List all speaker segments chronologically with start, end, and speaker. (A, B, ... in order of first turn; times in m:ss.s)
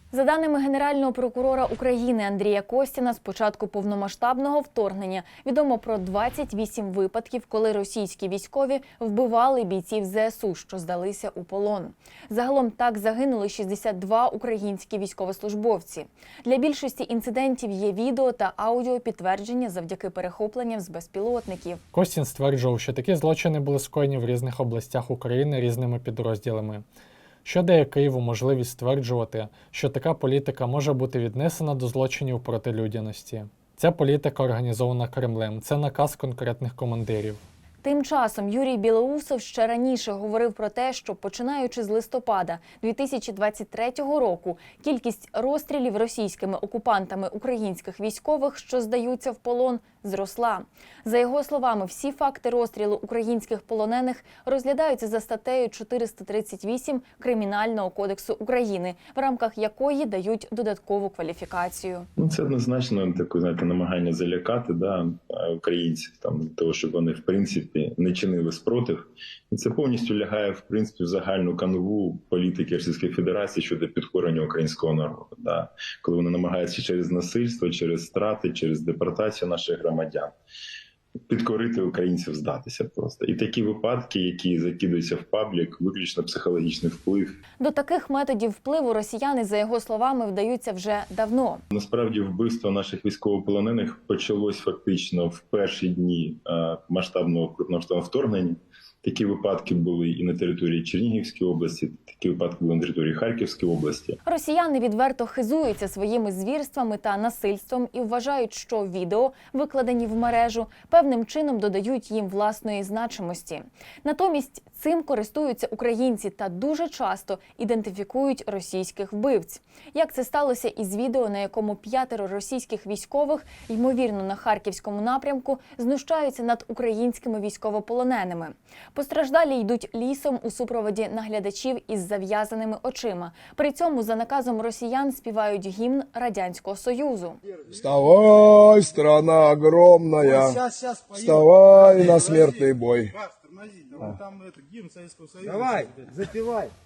0:00.1-0:21.8 A
0:21.9-0:26.8 B
0:27.4-0:37.4 B
0:37.8-1:02.1 A
1:02.2-1:20.3 C
1:21.3-1:27.4 C
1:27.6-1:31.6 A
1:31.7-1:44.2 C
1:44.3-2:17.4 A
2:17.7-2:20.6 D
2:20.2-2:26.7 E
2:21.2-2:23.1 D